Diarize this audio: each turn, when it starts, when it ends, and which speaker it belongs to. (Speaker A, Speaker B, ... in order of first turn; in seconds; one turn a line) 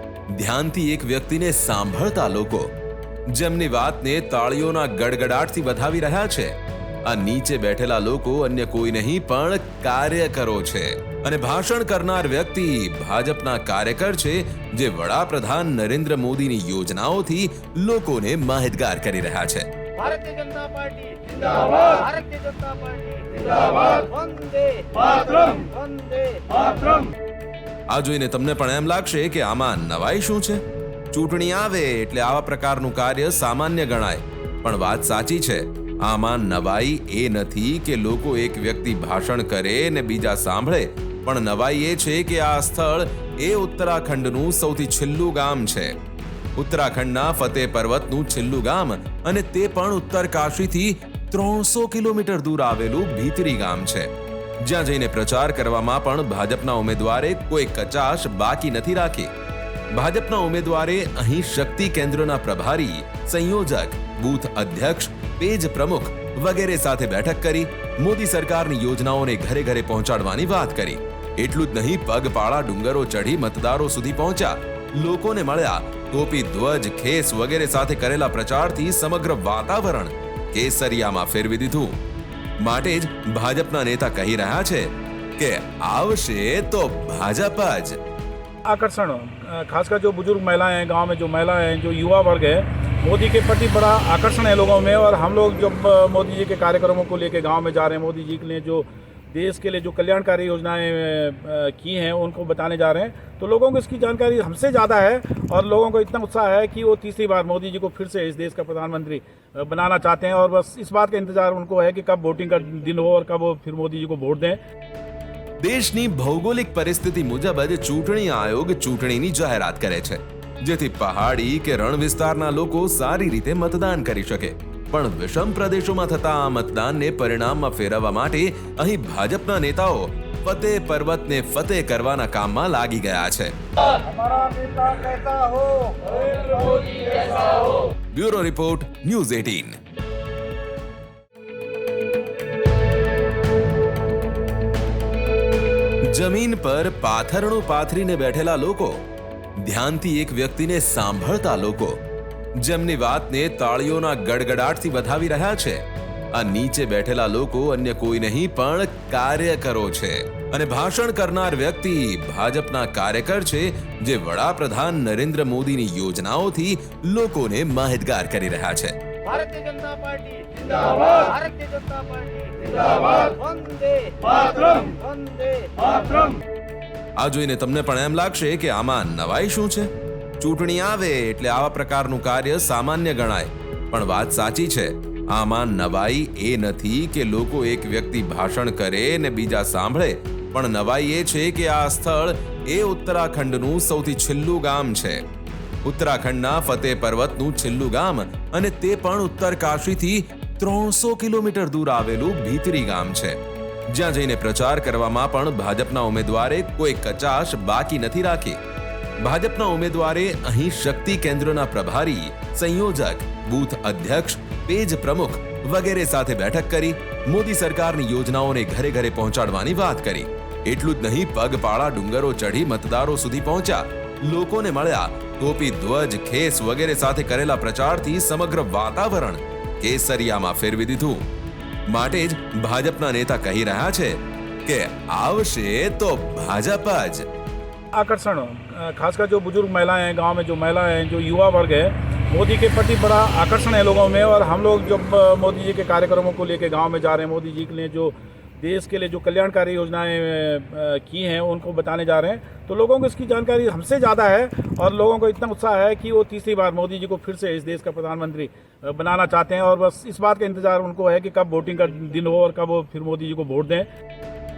Speaker A: 0.3-2.7
Speaker A: 3.3-6.5
Speaker A: 7.0-19.7
Speaker B: 20.0-27.1
Speaker A: 27.9-30.6
Speaker A: 31.1-45.9
Speaker A: 46.6-54.1
Speaker A: 54.6-59.3
Speaker A: 59.9-82.0
Speaker A: 82.6-88.0
Speaker C: 88.6-114.6
Speaker A: 115.6-133.5
Speaker C: 134.5-134.9
Speaker A: 138.1-139.8
Speaker A: 146.1-149.0
Speaker A: 149.6-152.0
Speaker A: 152.6-168.9
Speaker B: 169.2-176.4
Speaker A: 177.2-195.2
Speaker A: 195.8-203.4
Speaker A: 203.9-208.6
Speaker A: 209.2-231.2
Speaker A: 231.9-237.2
Speaker C: 237.9-263.9